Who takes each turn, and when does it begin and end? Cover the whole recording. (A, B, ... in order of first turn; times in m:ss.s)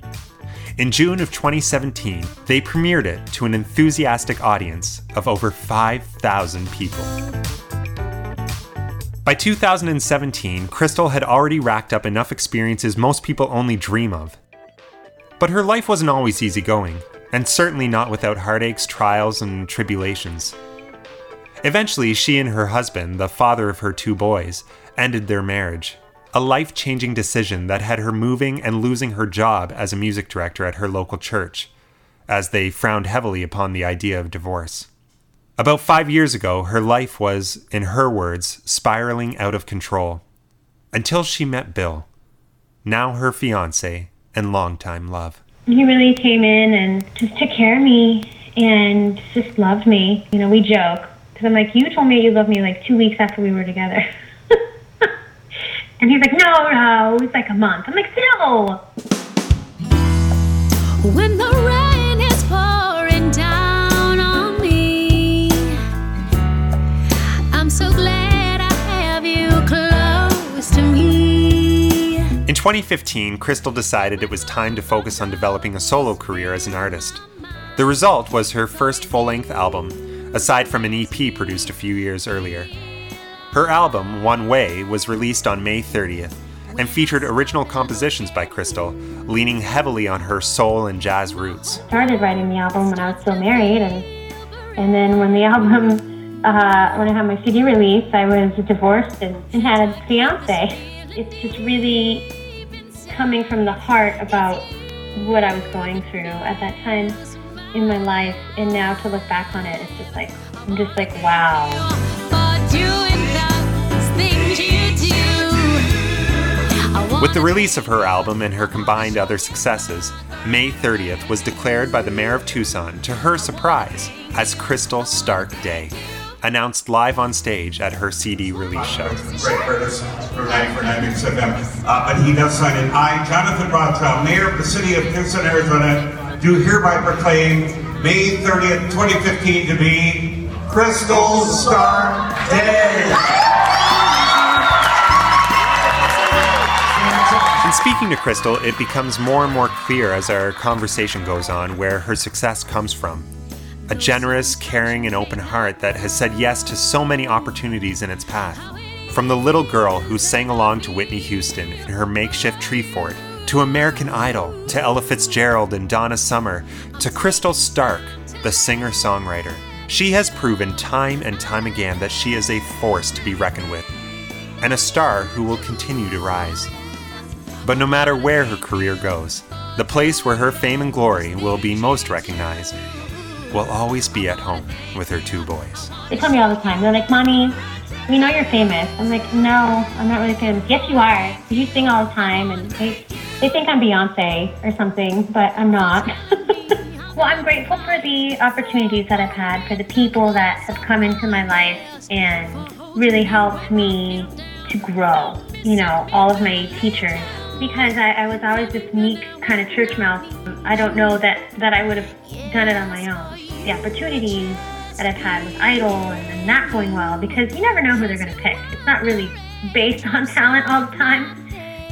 0:00.8-0:07.1 A
0:09.2-0:14.4 A
0:15.4-0:20.6 A
0:21.6-0:31.7 A
0:32.3-0:34.9 A
0:35.6-0:40.2 A
0:40.9-0:42.1 A
0:42.8-0:45.4 A
0:45.7-0:55.1 B
0:56.0-0:58.8 B
1:01.0-1:05.8 C
1:07.5-1:12.2 C
1:12.4-1:17.2 A
1:17.8-1:22.7 A
1:23.5-1:31.8 A
1:31.9-1:34.1 B
1:34.8-1:42.3 B
1:43.1-1:47.2 B
1:47.7-1:51.9 B
1:52.2-1:56.0 C
1:56.7-1:57.4 C
1:57.2-2:09.4 A
2:09.2-2:23.3 D
2:27.6-2:33.3 A
2:33.9-2:53.9 A
2:54.6-2:56.7 A
2:57.6-3:02.8 A
3:03.5-3:05.9 A
3:06.1-3:41.4 B